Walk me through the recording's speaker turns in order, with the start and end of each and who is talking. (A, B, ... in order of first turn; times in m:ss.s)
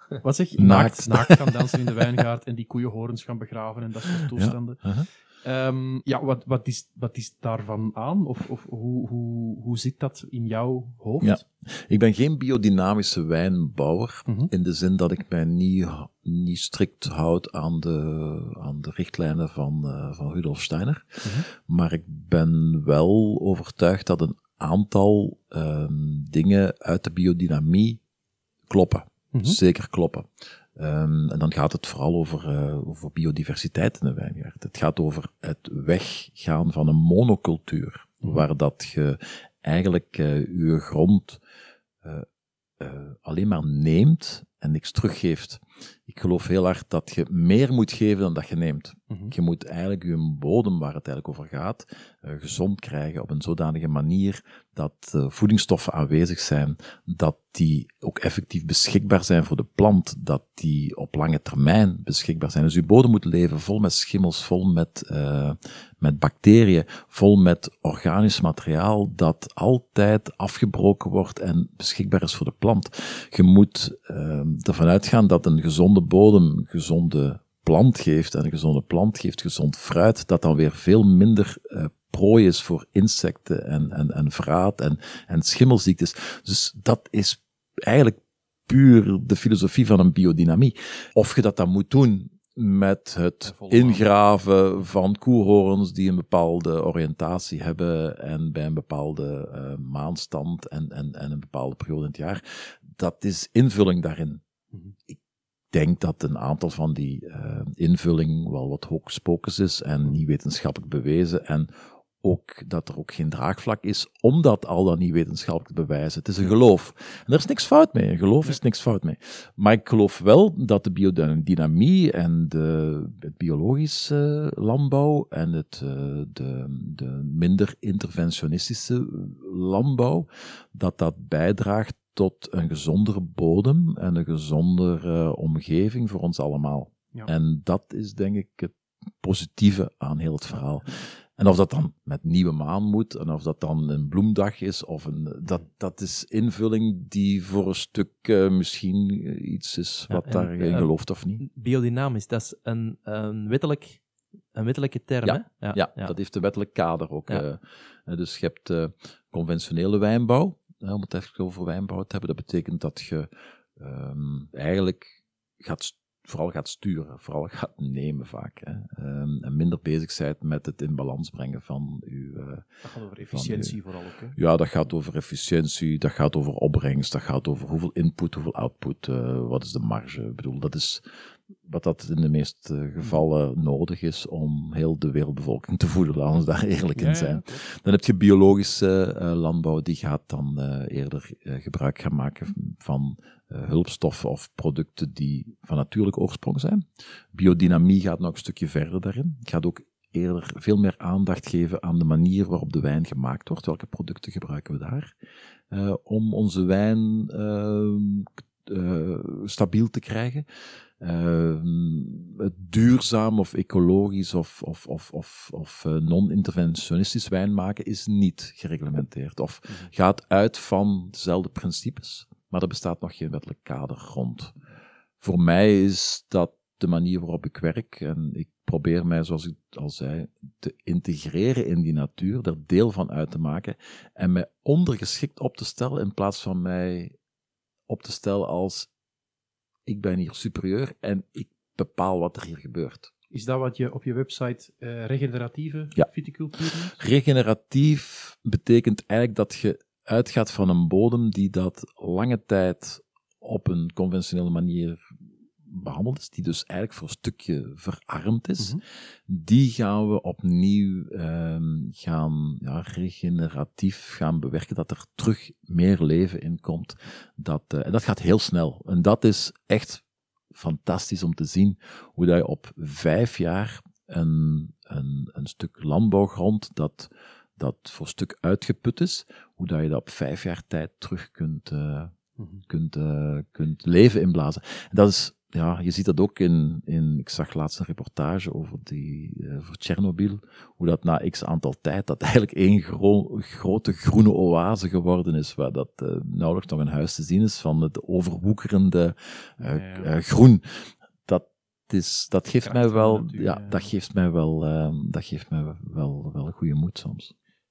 0:00.2-0:04.9 A
0:00.6-0:01.6 B
0:04.2-0:05.1 B
0:05.4-0:11.4 A
0:11.2-0:28.0 B
0:28.7-0:41.4 B
0:29.3-0:29.6 A
0:42.0-0:42.3 B
0:42.8-1:44.4 B
1:33.4-1:34.0 A
1:45.7-2:31.4 B
2:30.1-2:34.0 C
2:34.5-2:36.1 C
2:35.2-2:52.6 B
2:52.8-2:54.4 A
2:53.3-2:53.8 B
2:54.3-3:01.0 B
3:01.6-3:25.1 B
3:07.0-3:07.6 A
3:25.7-3:30.4 B
3:31.0-3:44.5 B
3:45.2-3:57.1 B
3:57.9-3:58.9 B
3:59.8-4:03.1 B
4:03.3-4:07.0 A
4:06.9-4:15.1 B
4:15.6-4:42.1 B
4:42.4-4:42.6 A
4:42.7-5:07.3 B
4:59.6-5:00.1 A
5:02.6-5:03.9 A